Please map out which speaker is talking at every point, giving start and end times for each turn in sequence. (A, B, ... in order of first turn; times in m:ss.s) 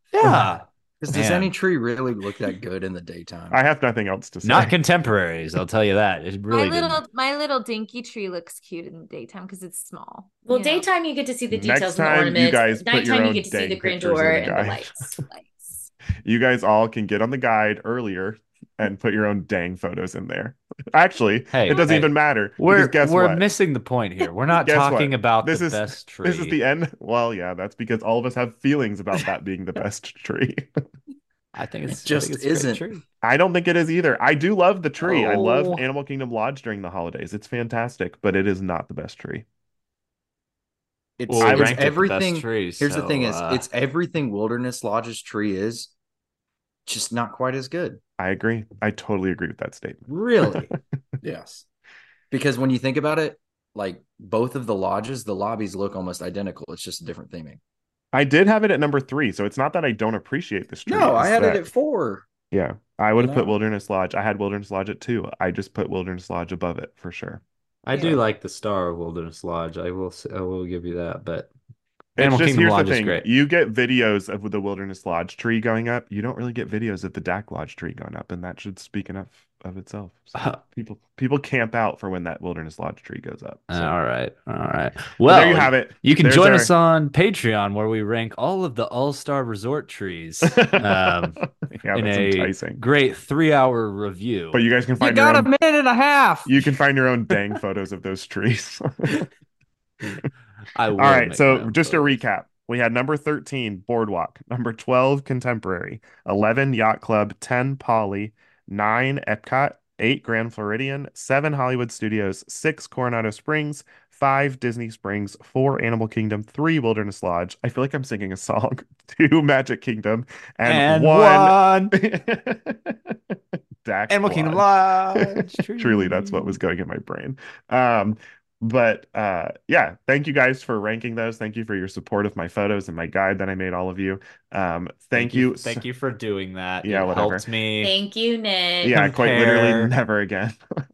0:00.1-0:01.5 A
0:01.0-0:03.6 B
0:03.5-0:04.7 C
0:04.4-0:07.0 A
0:06.5-0:10.9 D
0:10.4-0:15.2 E
0:11.5-0:14.9 C
0:15.2-0:15.9 D
0:16.2-0:23.4 C
0:21.5-0:26.6 A
0:24.5-0:30.7 C
0:31.5-0:33.0 A
0:32.0-0:33.0 B
0:33.2-0:39.4 C
0:35.0-0:35.8 A
0:41.2-0:45.9 B
0:41.3-0:43.6 A
0:41.4-0:42.0 C
0:46.8-0:48.0 B
0:48.2-0:50.8 C
0:50.1-0:50.7 A
0:51.2-0:51.6 B
0:52.3-0:57.6 B
0:58.1-1:01.7 C
1:00.8-1:02.2 B
1:02.5-1:07.4 C
1:03.2-1:03.5 B
1:07.8-1:11.5 A
1:07.9-1:08.2 C
1:12.2-1:23.9 C
1:12.2-1:13.2 A
1:20.3-1:20.6 A
1:23.7-1:31.4 A
1:25.2-1:26.7 C
1:30.5-1:32.8 C
1:31.9-1:34.6 A
1:34.5-1:35.5 C
1:35.0-1:36.5 B
1:36.4-1:39.3 C
1:40.0-1:42.1 A
1:41.0-2:15.8 C
2:00.6-2:01.9 A
2:04.1-2:06.6 A
2:15.2-2:18.0 A
2:16.8-2:17.5 C
2:17.8-2:19.0 E
2:18.8-2:19.9 A
2:18.8-2:20.6 C